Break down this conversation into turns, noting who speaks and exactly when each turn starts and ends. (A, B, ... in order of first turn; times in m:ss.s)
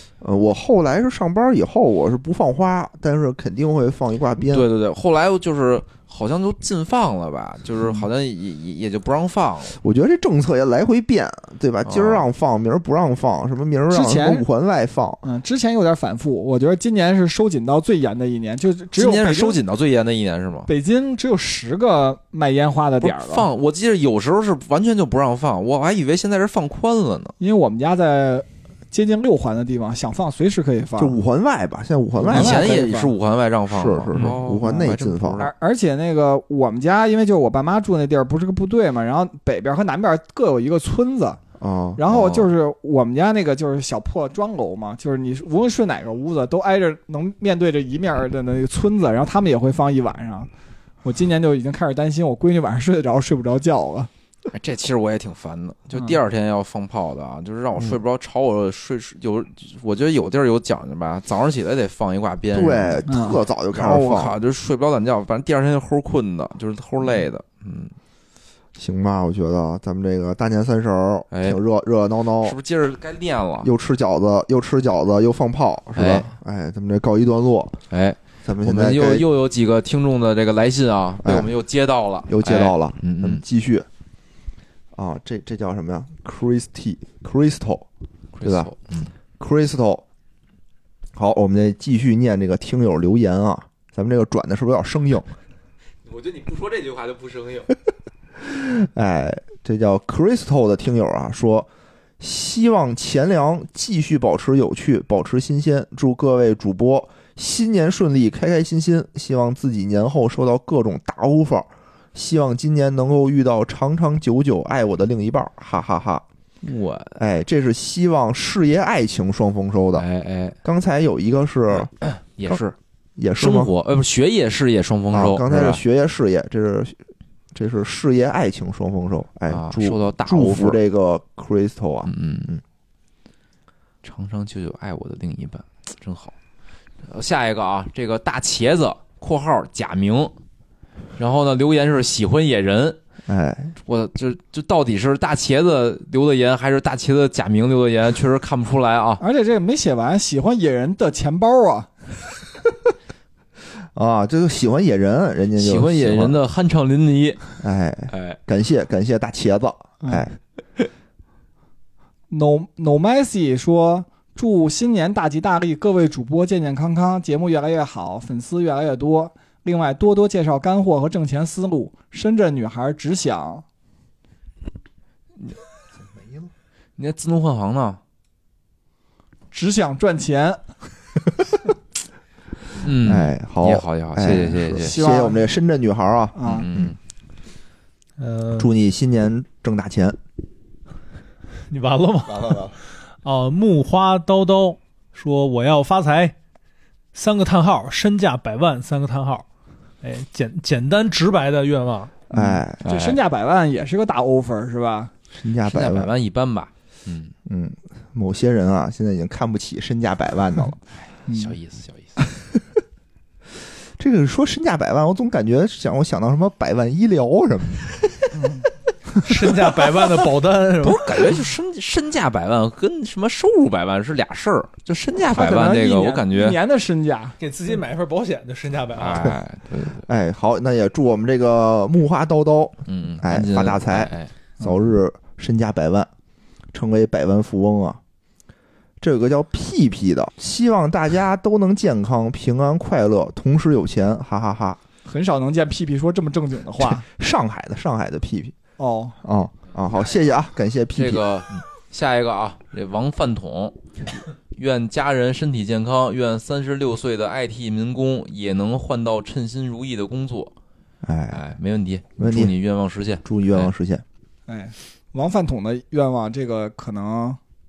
0:00.2-0:04.7 A
0:04.5-0:09.8 B
0:09.8-0:15.2 A
0:11.8-0:12.2 B
0:13.9-0:14.4 C
0:15.2-0:19.6 C
0:18.9-0:20.7 B
0:20.7-0:23.5 C
0:23.0-0:27.3 B
0:27.4-0:31.2 C
0:31.0-0:32.8 A
0:32.2-0:33.1 C
0:32.2-0:35.5 B
0:33.7-0:35.4 A
0:34.2-0:41.4 C
0:41.6-0:42.0 A
0:42.0-0:50.5 C
0:42.1-0:42.5 B
0:51.0-0:54.1 C
0:54.5-1:03.0 B
1:02.5-1:04.4 A
1:03.1-1:03.4 C
1:03.7-1:07.9 B
1:08.8-1:12.6 A
1:11.3-1:11.6 B
1:12.4-1:13.7 B
1:13.6-1:17.8 A
1:16.0-1:16.3 B
1:17.9-1:23.4 B
1:18.4-1:19.2 A
1:21.2-1:21.5 A
1:22.3-1:23.9 A
1:24.9-1:27.9 A
1:28.3-1:29.1 B
1:28.4-1:28.7 A
1:29.4-1:30.0 A
1:31.1-1:35.3 A
1:36.0-1:37.7 B
1:38.4-1:41.7 A
1:42.2-1:56.2 A
1:56.6-1:57.2 B
1:57.2-2:00.0 A
1:59.9-2:00.6 B
2:00.6-2:01.9 A
2:01.8-2:02.8 B
2:03.2-2:03.7 A
2:03.4-2:05.8 B
2:05.1-2:07.0 A
2:07.5-2:12.6 A
2:09.5-2:10.8 B
2:12.1-2:12.5 B
2:14.0-2:16.3 B
2:17.0-2:20.3 B
2:21.2-2:23.0 B
2:23.3-2:23.7 A
2:23.8-2:29.2 B
2:29.2-2:31.9 C
2:33.9-2:36.4 A
2:35.6-2:37.4 B
2:37.6-2:40.4 A
2:38.1-2:38.4 B
2:42.3-2:53.6 C
2:56.2-2:56.5 A
2:57.0-2:58.0 B
2:59.5-3:00.6 C
3:02.8-3:05.0 B
3:03.0-3:06.9 A
3:04.8-3:05.4 C
3:06.3-3:06.6 C
3:06.4-3:07.0 B
3:08.2-3:08.7 D
3:08.6-3:10.2 A
3:11.7-3:12.7 D
3:12.3-3:12.7 A
3:13.2-3:16.3 D
3:17.1-3:19.4 D
3:20.0-3:22.2 D
3:22.3-3:22.8 A
3:22.3-3:25.1 C
3:22.8-3:23.2 B
3:25.3-3:26.1 A
3:25.6-3:27.3 B
3:27.4-3:30.8 A
3:31.3-3:31.5 C
3:31.3-3:32.2 B
3:34.0-3:38.0 A
3:39.2-3:41.2 D
3:40.8-3:46.6 B
3:45.3-3:47.4 C
3:47.4-3:49.3 D
3:49.0-3:50.0 B
3:50.0-3:56.1 A
3:52.9-3:54.3 B
3:56.7-3:58.0 A
3:59.0-4:04.8 A
4:05.0-4:07.0 C
4:06.8-4:08.6 A
4:08.8-4:09.2 C
4:09.2-4:11.6 A
4:10.9-4:13.8 B
4:14.5-4:20.5 B
4:21.0-4:21.4 A
4:21.3-4:23.7 B
4:22.2-4:22.5 A
4:23.2-4:24.0 A
4:24.5-4:27.4 C